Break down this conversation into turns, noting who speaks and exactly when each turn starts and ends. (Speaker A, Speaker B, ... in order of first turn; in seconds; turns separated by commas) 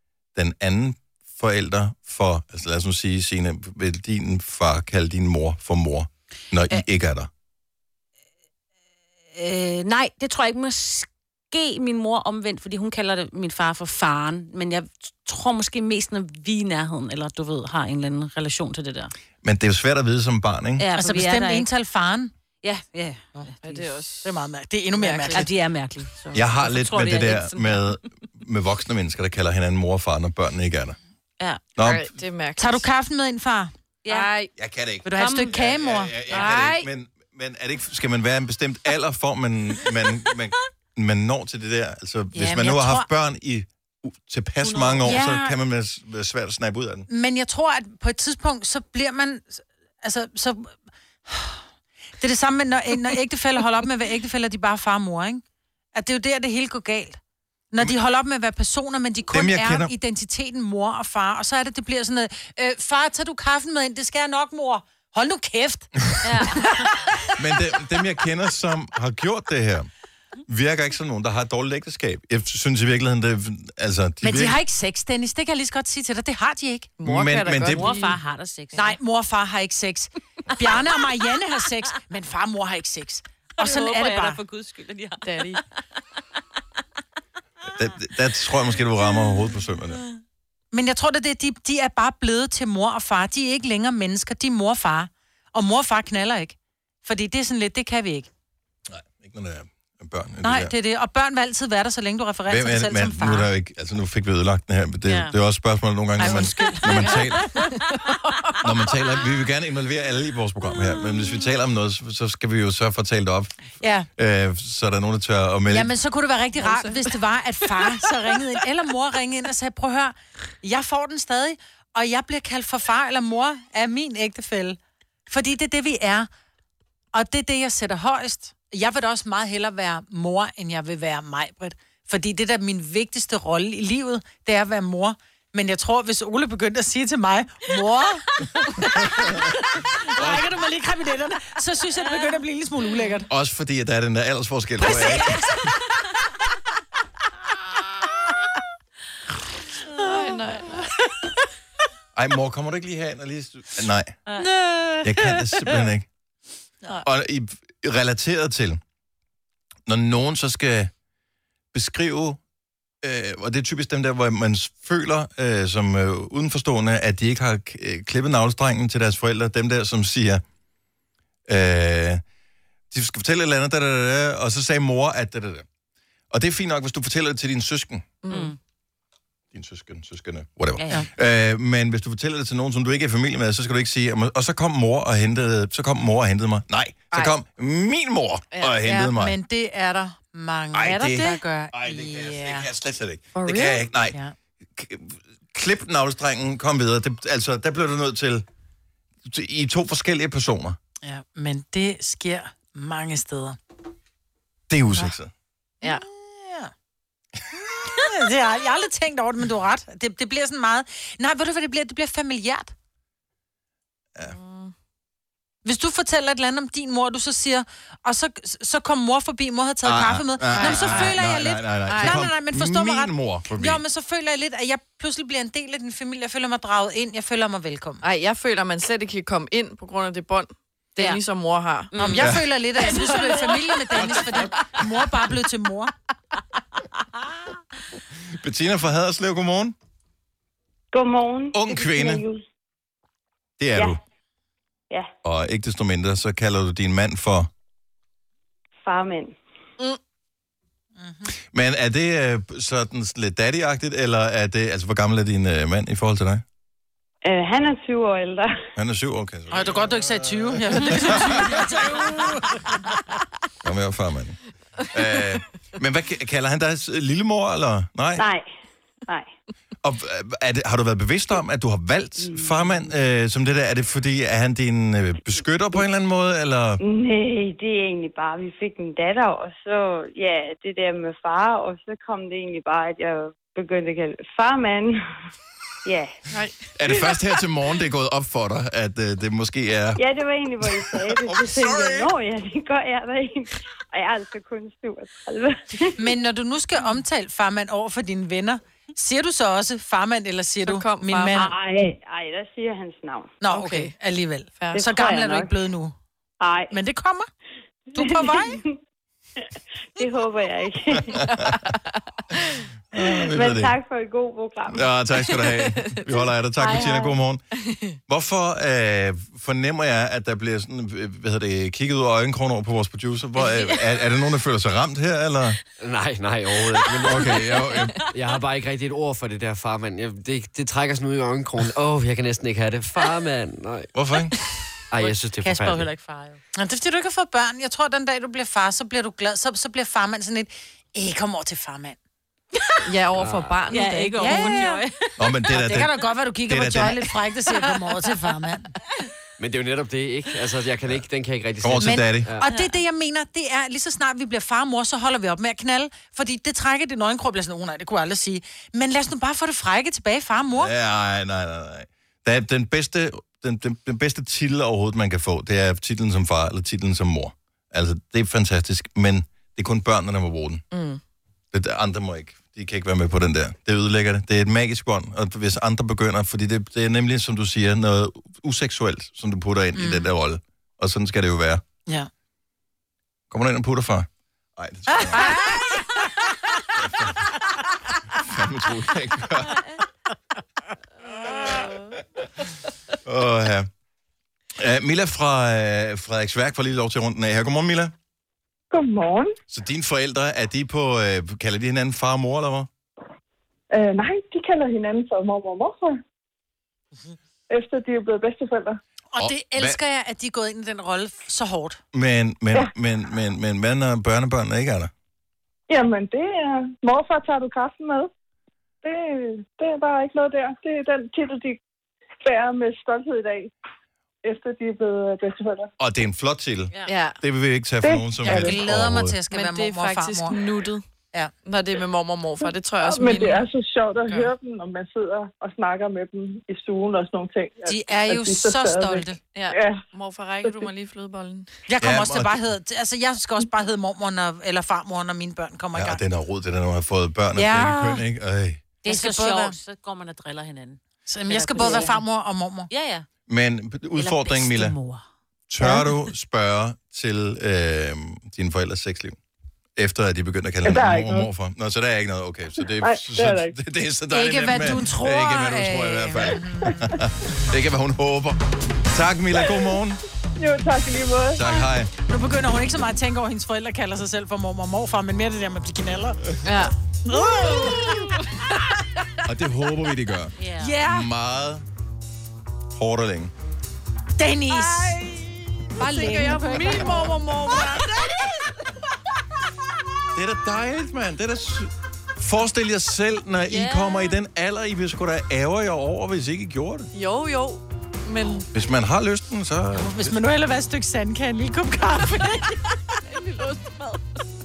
Speaker A: 0.3-7.3, Speaker B: 9.3-19.1, Speaker A: 19.4-20.8, Speaker B: 20.8-21.7, Speaker C: 20.9-22.3, Speaker B: 22.6-23.5, Speaker C: 23.4-25.5, Speaker D: 23.6-24.3, Speaker D: 24.9-26.4, Speaker B: 25.3-26.1, Speaker A: 26.3-31.0, Speaker B: 26.6-28.0, Speaker A: 31.8-32.1, Speaker D: 31.8-32.9, Speaker C: 32.6-33.7, Speaker B: 34.0-34.3, Speaker D: 34.1-34.5, Speaker A: 34.5-47.1, Speaker C: 35.0-36.3, Speaker B: 35.1-35.5, Speaker B: 36.3-36.6, Speaker D: 36.3-36.8, Speaker C: 42.3-43.1, Speaker C: 45.0-45.5, Speaker C: 47.1-51.6, Speaker C: 52.2-55.4, Speaker C: 55.9-57.2, Speaker C: 57.7-66.8, Speaker A: 59.3-59.9, Speaker B: 66.2-66.8, Speaker A: 67.4-69.9, Speaker A: 70.5-74.6, Speaker C: 74.2-76.9, Speaker D: 77.0-78.2, Speaker A: 77.0-77.9, Speaker B: 77.7-78.9, Speaker C: 78.7-84.4, Speaker B: 83.6-85.6, Speaker D: 85.2-85.6, Speaker A: 87.7-90.0, Speaker C: 90.7-98.3, Speaker A: 98.9-100.7, Speaker C: 100.4-103.5, Speaker A: 102.5-107.5, Speaker B: 105.0-105.3, Speaker C: 106.2-107.3, Speaker A: 108.6-113.6, Speaker C: 113.8-114.1, Speaker A: 114.1-115.9, Speaker C: 115.7-126.3, Speaker D: 116.6-117.0, Speaker C: 127.1-138.2, Speaker C: 138.8-143.3, Speaker A: 139.0-139.4, Speaker A: 140.2-140.4, Speaker A: 143.3-145.4, Speaker C: 144.8-145.4, Speaker D: 149.9-151.0, Speaker A: 152.1-154.2, Speaker A: 155.0-156.1, Speaker A: 157.0-158.8, Speaker A: 159.9-160.9, Speaker A: 161.7-162.4, Speaker A: 163.0-170.4, Speaker A: 171.5-172.2, Speaker A: 172.9-175.7, Speaker A: 176.3-178.1, Speaker D: 178.2-178.6, Speaker B: 178.3-178.6, Speaker A: 179.5-189.3, Speaker B: 180.8-181.1, Speaker D: 188.5-188.8, Speaker C: 188.8-192.7, Speaker A: 190.7-194.2, Speaker D: 193.3-193.8, Speaker A: 194.8-198.4, Speaker A: 199.2-200.8, Speaker C: 201.0-203.6, Speaker A: 204.7-205.3, Speaker C: 205.8-206.7, Speaker C: 207.9-212.7, Speaker D: 214.2-214.7, Speaker C: 215.6-228.0, Speaker A: 219.8-223.8, Speaker D: 220.6-221.1, Speaker D: 221.9-222.2, Speaker D: 228.0-232.3, Speaker B: 231.9-232.2, Speaker C: 231.9-235.9, Speaker A: 232.2-232.4, Speaker D: 232.8-233.5, Speaker A: 238.4-239.7, Speaker E: 240.9-242.4, Speaker A: 241.5-242.2, Speaker A: 243.6-244.0, Speaker A: 245.2-247.5, Speaker E: 248.8-249.3, Speaker C: 251.0-251.3, Speaker A: 251.5-256.4, Speaker E: 257.2-258.6, Speaker A: 258.8-262.4, Speaker C: 259.5-262.4, Speaker A: 263.6-264.4, Speaker A: 264.9-268.2, Speaker E: 268.1-268.5, Speaker A: 269.8-276.8, Speaker E: 272.2-272.9, Speaker E: 276.8-285.0, Speaker E: 285.8-286.1, Speaker D: 286.3-286.7, Speaker A: 286.8-290.0, Speaker E: 289.9-296.1, Speaker A: 290.6-292.1, Speaker C: 295.9-301.5, Speaker D: 300.6-301.5, Speaker E: 301.3-303.4, Speaker C: 303.4-305.9, Speaker D: 303.5-303.9, Speaker D: 304.6-304.9, Speaker E: 304.7-305.6, Speaker E: 306.4-306.8, Speaker C: 306.7-307.3, Speaker E: 307.9-308.8, Speaker C: 307.9-308.6, Speaker E: 309.4-311.2, Speaker A: 311.2-311.5, Speaker D: 311.3-312.0, Speaker A: 312.9-313.7, Speaker E: 313.0-314.9, Speaker A: 314.7-317.4, Speaker D: 315.3-316.9, Speaker E: 316.6-317.1, Speaker D: 317.5-318.0, Speaker A: 318.1-325.6, Speaker F: 325.8-333.9, Speaker A: 327.0-328.0, Speaker A: 333.9-334.3, Speaker F: 334.9-335.9, Speaker C: 335.4-342.0, Speaker D: 342.8-344.8, Speaker F: 343.1-343.7, Speaker B: 343.7-344.9, Speaker C: 343.8-344.8, Speaker A: 345.2-347.0, Speaker C: 345.5-348.7, Speaker F: 349.4-352.5, Speaker A: 351.6-352.3, Speaker C: 351.8-360.7, Speaker B: 352.5-352.7, Speaker A: 360.6-370.6, Speaker D: 370.7-371.0, Speaker A: 371.5-381.6, Speaker C: 379.7-380.1, Speaker A: 383.3-385.4, Speaker C: 384.9-385.8, Speaker A: 386.7-387.2, Speaker A: 388.1-389.6, Speaker A: 393.0-393.7, Speaker A: 394.6-397.9, Speaker G: 398.7-399.3, Speaker A: 399.5-402.7, Speaker G: 403.7-406.0, Speaker G: 407.5-408.8, Speaker C: 409.1-411.8, Speaker A: 409.2-409.8, Speaker A: 411.9-414.9, Speaker G: 415.7-418.1, Speaker G: 418.8-421.6, Speaker G: 422.2-423.5, Speaker G: 424.2-425.7, Speaker A: 425.8-429.1, Speaker D: 426.8-427.2, Speaker G: 427.8-428.2, Speaker C: 428.2-430.4, Speaker D: 429.3-430.8, Speaker D: 431.4-433.5, Speaker G: 432.8-439.8, Speaker D: 434.1-434.3, Speaker C: 437.6-439.2, Speaker D: 439.3-441.5, Speaker C: 441.7-446.0, Speaker A: 441.8-442.4, Speaker A: 445.7-448.6, Speaker C: 447.3-448.0, Speaker B: 448.8-452.0, Speaker C: 448.8-449.5, Speaker C: 451.1-452.7, Speaker B: 452.7-453.1, Speaker A: 453.3-454.7, Speaker B: 453.9-455.0, Speaker A: 455.5-459.1, Speaker A: 459.8-468.4, Speaker G: 460.6-461.3, Speaker G: 462.6-463.5, Speaker C: 464.1-466.7, Speaker A: 468.9-470.0, Speaker G: 470.4-471.6, Speaker A: 471.3-471.9, Speaker C: 472.0-476.2, Speaker D: 476.4-476.7, Speaker C: 477.1-478.0, Speaker A: 479.3-481.6, Speaker B: 480.4-480.8, Speaker C: 480.6-481.1, Speaker A: 482.7-483.3, Speaker C: 484.2-485.1, Speaker C: 485.8-487.8, Speaker D: 485.8-488.1, Speaker A: 490.1-496.9, Speaker B: 493.5-494.1, Speaker D: 496.9-498.4, Speaker A: 498.5-500.1, Speaker C: 499.7-502.5, Speaker D: 503.1-504.0